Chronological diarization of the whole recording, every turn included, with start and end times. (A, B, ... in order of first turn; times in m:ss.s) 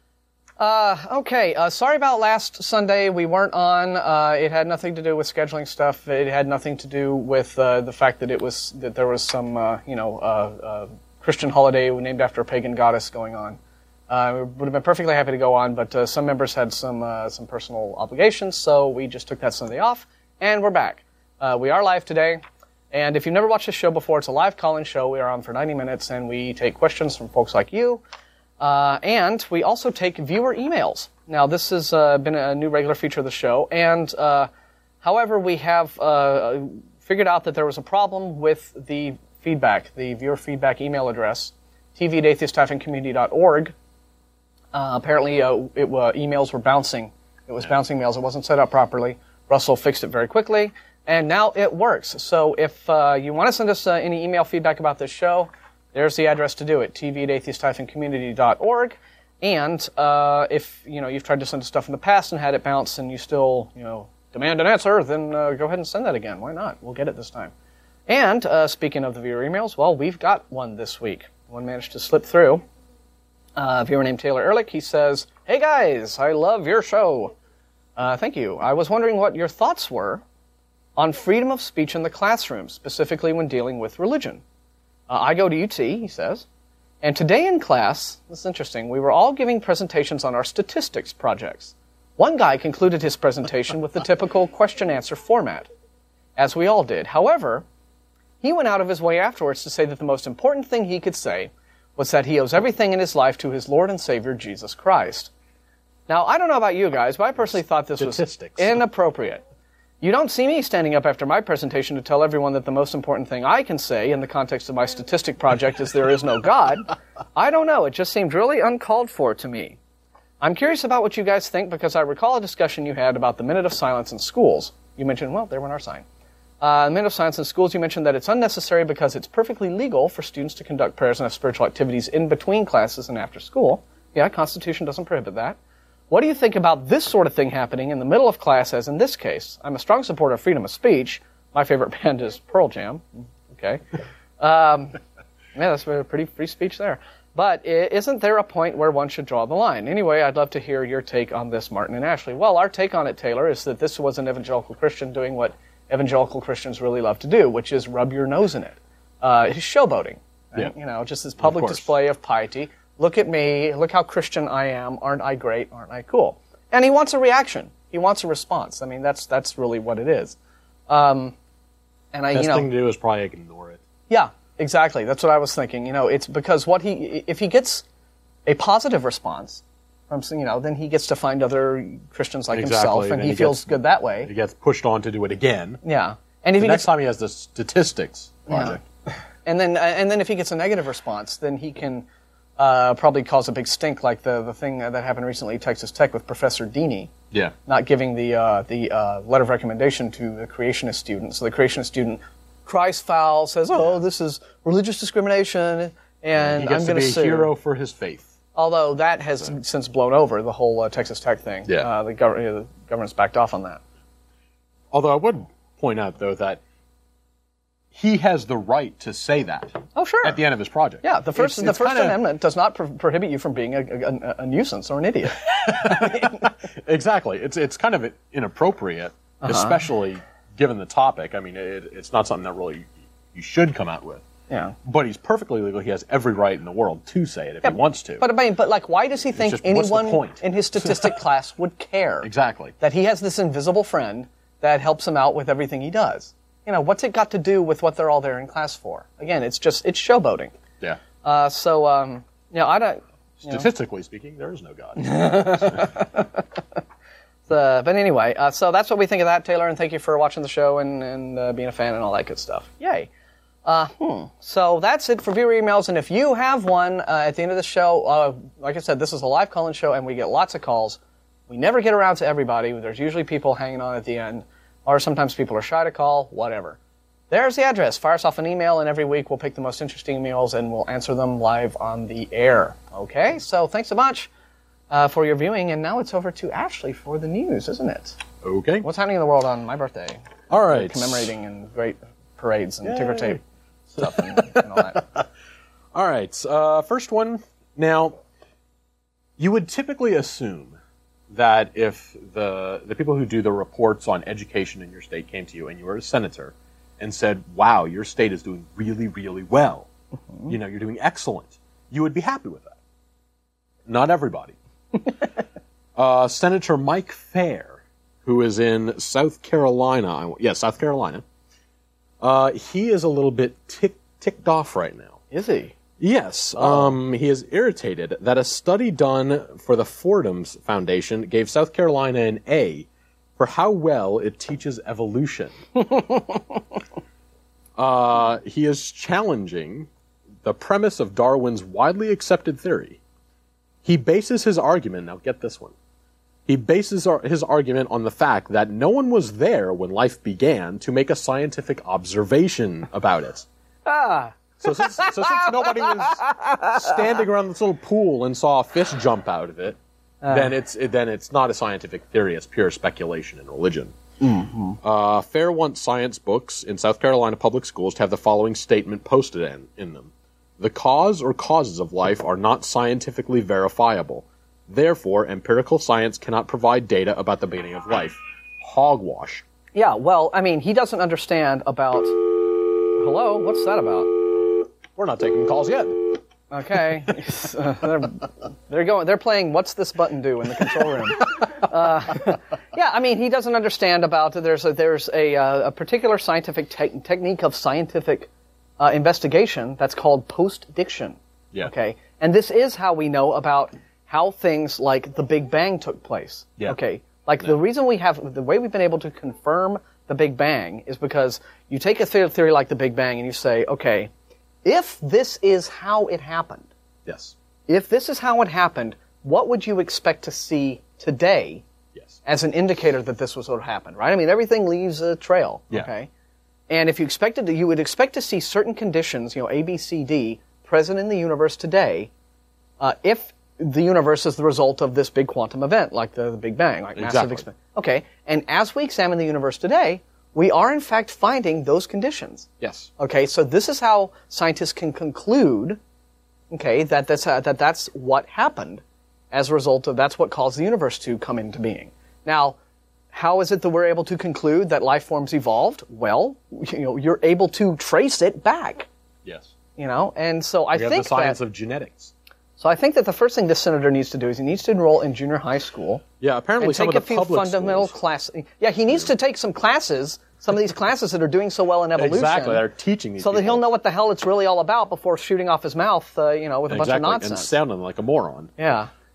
0:00.6-0:13.6 A
0:14.1-0:22.4 A
0:22.9-0:28.0 A
0:28.6-0:34.5 A
0:35.0-0:43.7 A
0:44.7-1:07.5 A
1:08.1-1:12.6 A
1:13.6-1:17.3 A
1:18.0-1:20.2 A
1:21.0-1:24.4 A
1:25.1-1:26.4 A
1:27.0-1:35.7 A
1:36.4-1:37.6 A
1:38.4-1:45.3 A
1:46.1-1:49.4 A
1:48.0-1:48.7 B
1:50.0-1:59.8 A
2:00.4-2:06.0 A
2:06.6-2:15.6 A
2:16.1-2:23.8 A
2:24.4-2:25.0 A
2:25.6-2:50.4 A
2:41.4-2:41.9 B
2:50.9-2:51.4 A
2:52.1-2:52.7 A
2:52.3-2:53.8 B
2:54.1-2:57.8 A
2:58.5-3:04.3 A
3:02.5-3:05.8 B
3:05.8-3:06.9 A
3:06.6-3:08.8 B
3:08.5-3:08.8 A
3:09.4-3:12.1 A
3:12.6-3:17.1 A
3:17.7-3:27.5 A
3:26.4-3:28.3 B
3:28.6-3:33.8 A
3:34.9-3:36.6 B
3:37.9-3:42.2 B
3:40.0-3:40.4 A
3:41.0-3:46.5 A
3:45.6-3:54.2 B
3:49.4-3:49.8 A
3:54.5-3:54.8 A
3:54.8-3:58.3 B
3:57.6-4:02.3 A
3:59.4-4:01.2 B
4:02.2-4:02.8 B
4:02.8-4:10.5 A
4:11.2-4:13.7 A
4:13.4-4:16.0 B
4:15.0-4:16.4 A
4:17.5-4:23.1 A
4:23.6-4:36.8 A
4:37.3-4:44.3 A
4:44.9-4:48.2 A
4:48.4-4:48.9 B
4:48.8-4:53.4 A
4:50.5-4:51.3 B
4:52.8-4:53.4 B
4:53.9-4:55.0 A
4:54.0-4:55.3 B
4:55.9-4:58.2 B
4:59.4-5:00.8 B
5:01.3-5:09.9 B
5:10.5-5:12.8 B
5:13.9-5:14.6 B
5:16.0-5:21.2 B
5:22.2-5:25.2 B
5:25.3-5:25.7 A
5:26.0-5:35.6 B
5:26.6-5:26.9 A
5:35.9-5:36.4 A
5:37.8-5:39.9 B
5:40.4-5:43.0 B
5:43.8-5:45.8 B
5:46.5-5:53.5 B
5:53.9-5:57.0 A
5:54.6-5:59.8 B
6:00.2-6:00.5 A
6:00.3-6:03.9 B
6:04.2-6:04.8 A
6:04.8-6:19.4 B
6:19.8-6:24.2 A
6:25.0-6:26.2 B
6:26.5-6:54.1 A
6:54.6-6:56.7 A
6:57.1-6:57.4 B
6:57.7-7:01.6 A
7:02.2-7:06.1 A
7:06.7-7:12.1 A
7:12.8-7:25.8 A
7:17.0-7:17.5 B
7:22.6-7:22.9 B
7:26.5-7:32.6 A
7:33.1-7:38.9 A
7:39.2-7:39.5 B
7:39.8-7:41.4 A
7:40.7-7:42.1 B
7:42.6-7:46.0 A
7:46.2-7:48.0 B
7:46.6-7:52.6 A
7:52.0-7:53.7 B
7:53.2-7:57.6 A
7:56.7-7:58.5 B
7:58.6-7:58.9 A